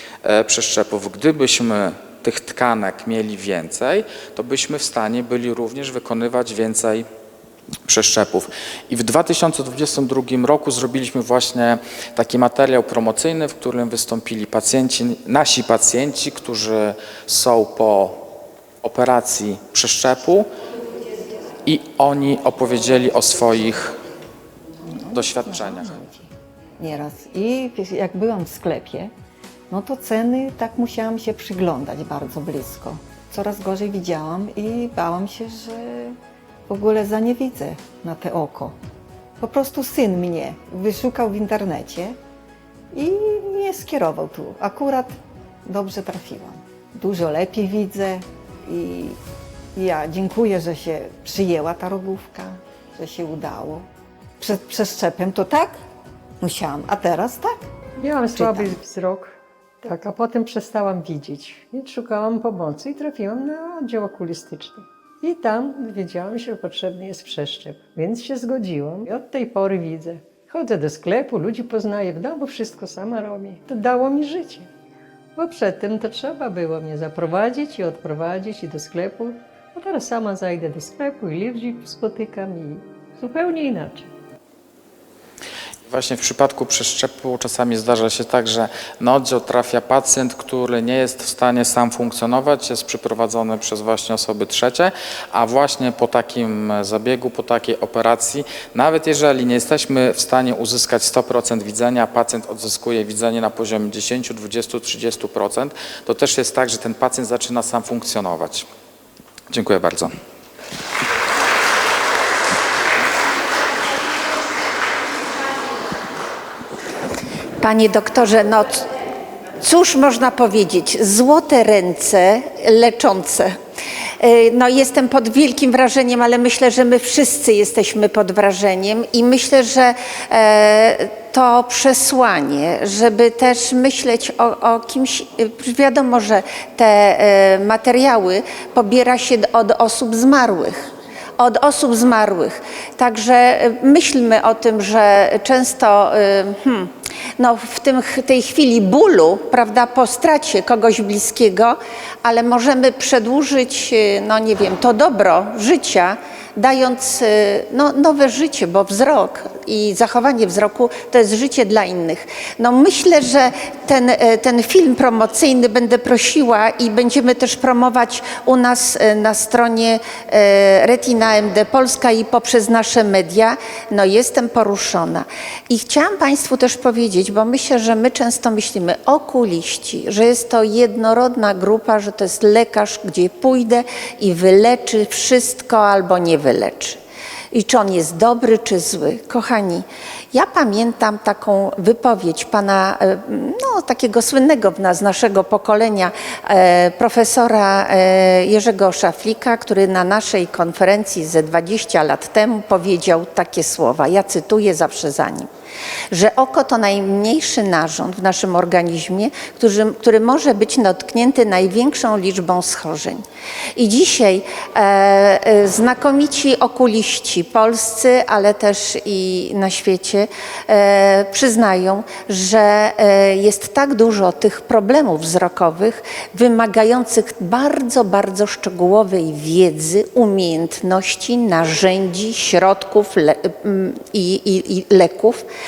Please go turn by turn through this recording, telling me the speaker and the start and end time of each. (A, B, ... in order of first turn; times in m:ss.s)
0:00.2-0:07.0 A
0:07.8-0:18.2 A
0:18.8-0:20.5 A
0:21.6-0:24.0 A
0:24.8-0:29.1 B
0:25.1-0:26.0 A
0:29.7-0:36.2 B
0:36.7-0:38.8 B
0:39.4-0:42.2 B
0:42.9-0:49.2 B
0:49.7-0:53.9 B
0:54.4-0:55.8 B
0:56.4-0:57.7 B
0:58.0-1:14.7 C
0:58.3-0:58.7 B
1:15.4-1:24.1 C
1:25.9-1:48.7 A
1:49.5-1:50.1 A
1:57.6-1:58.9 D
1:59.6-2:03.6 D
2:04.2-2:20.8 D
2:21.4-3:07.0 D
3:07.5-3:25.5 D
3:26.1-3:33.2 D
3:33.8-3:55.4 D